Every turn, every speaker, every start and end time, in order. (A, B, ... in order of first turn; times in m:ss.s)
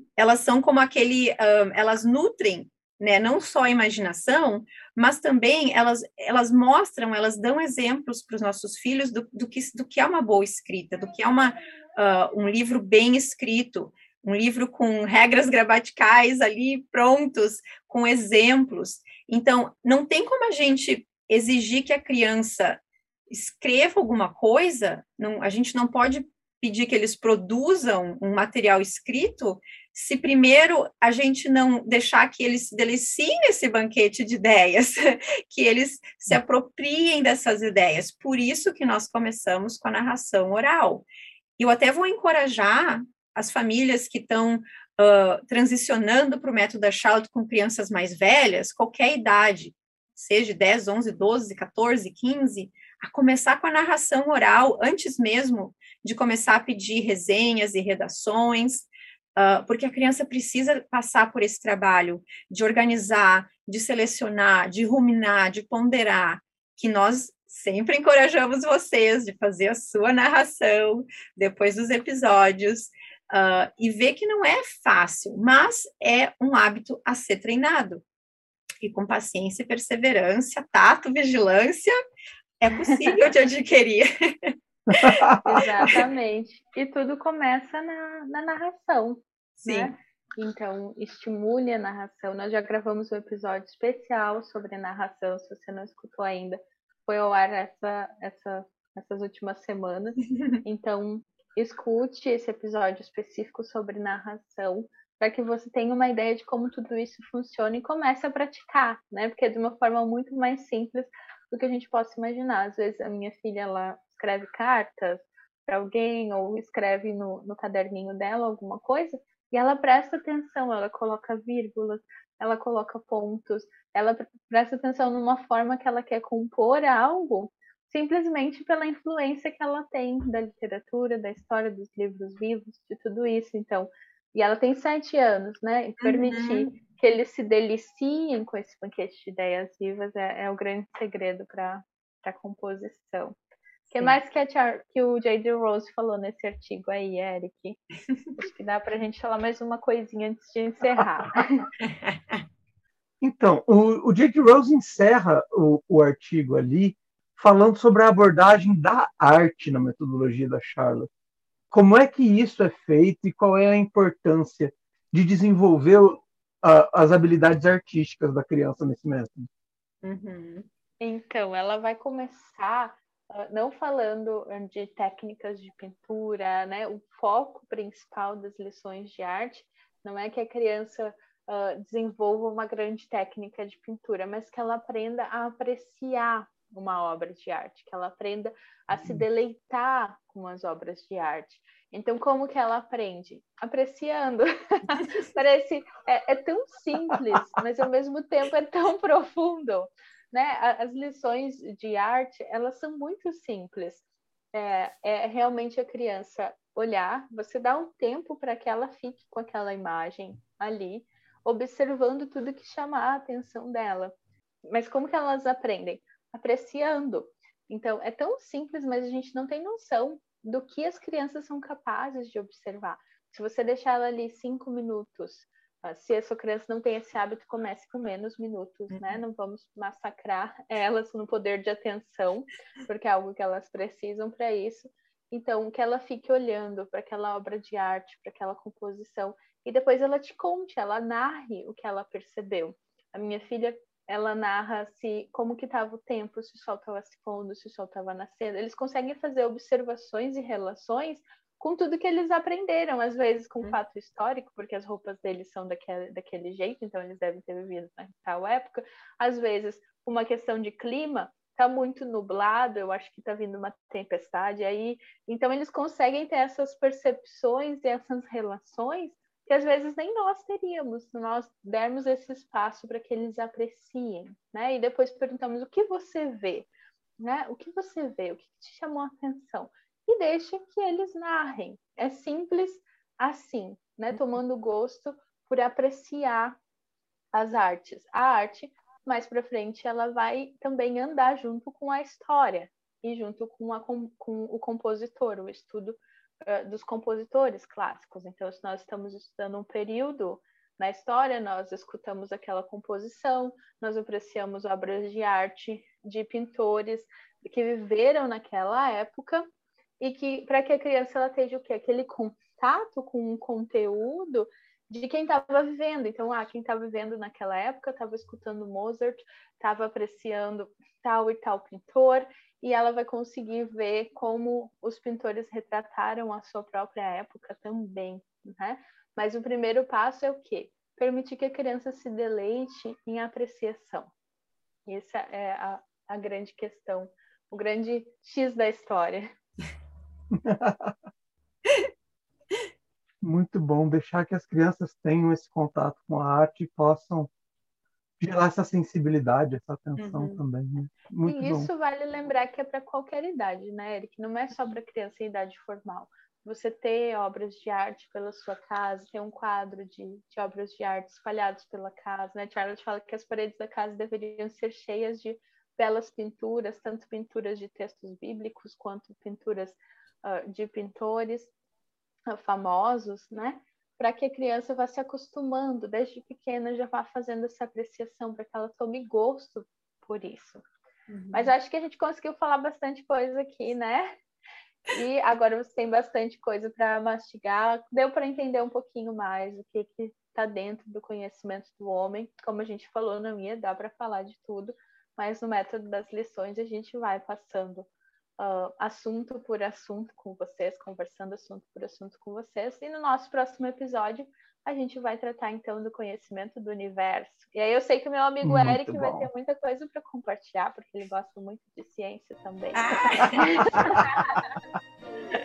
0:00.2-0:41.0 A
0:41.6-1:18.0 A
1:18.8-1:22.0 A
1:22.6-1:26.0 A
1:24.9-1:25.6 B
1:25.4-2:23.4 C
1:29.6-1:29.9 A
2:16.0-2:16.8 A
2:23.9-2:27.8 C
2:28.4-2:31.7 C
2:31.9-2:32.4 A
2:33.2-2:41.1 B
2:41.7-2:49.5 B
2:50.0-2:50.7 A
2:51.0-3:34.1 C
3:34.7-4:36.7 C
3:48.9-3:49.2 A
4:37.2-4:46.6 C
4:47.3-5:09.5 C
5:10.0-5:34.1 C
5:34.9-5:39.3 C
5:40.3-5:41.0 B
5:43.2-5:47.3 B
5:48.2-5:51.7 B
5:50.0-5:50.4 A
5:51.3-6:11.5 C
6:12.3-6:20.6 C
6:21.1-6:21.5 A
6:21.3-6:24.1 C
6:24.9-6:37.9 C
6:38.4-6:54.4 C
6:48.4-6:49.3 B
6:52.8-6:53.5 A
6:53.8-6:54.2 B